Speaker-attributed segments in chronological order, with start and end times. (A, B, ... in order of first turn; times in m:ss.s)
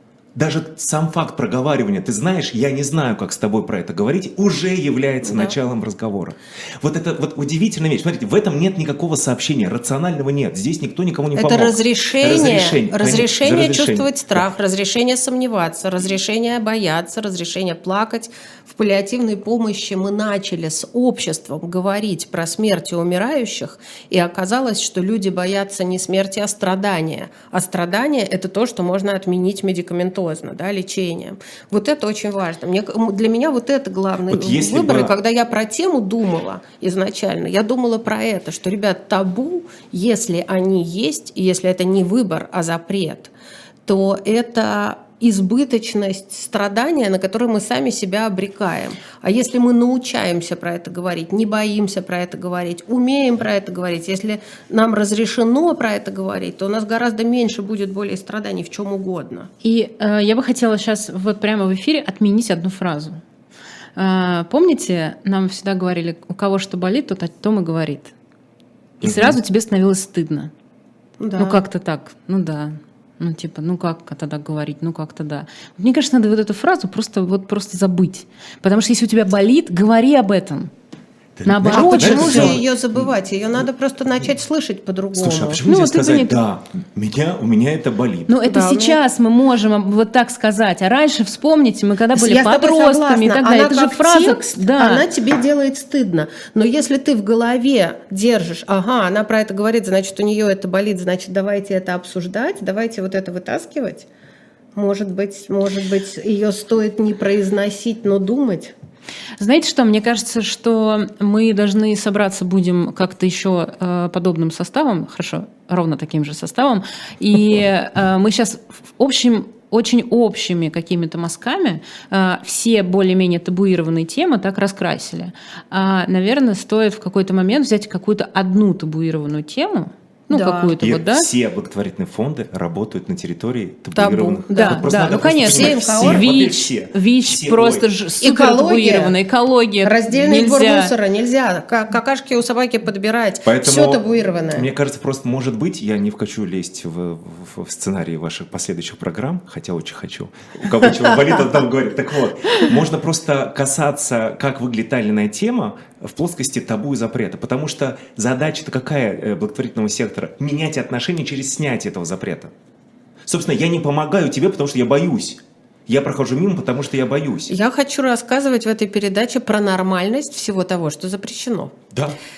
0:00.4-0:14.4 A
0:05.2-0:05.6 B
0:11.4-0:43.3 B
0:34.3-0:35.1 A
0:43.9-0:59.5 B
0:59.6-1:03.2 C
1:04.0-1:08.1 C
1:09.0-1:10.5 C
1:09.0-1:09.4 A
1:11.2-1:11.6 B
1:11.4-1:20.7 C
1:21.4-1:23.1 A
1:21.5-1:22.6 C
1:21.7-1:25.6 B
1:25.2-1:28.3 A
1:25.7-1:26.4 C
1:28.3-1:35.1 C
1:28.5-1:29.0 B
1:32.2-1:44.1 B
1:44.8-1:48.7 B
1:49.4-2:11.3 C
2:10.3-2:10.8 B
2:10.8-2:17.8 A
2:14.0-2:16.3 B
2:14.5-2:20.9 C
2:18.2-2:19.2 B
2:19.8-2:24.7 B
2:23.4-2:24.0 A
2:24.5-2:42.5 A
2:43.3-2:47.5 A
2:47.5-2:51.7 B
2:51.9-2:52.2 A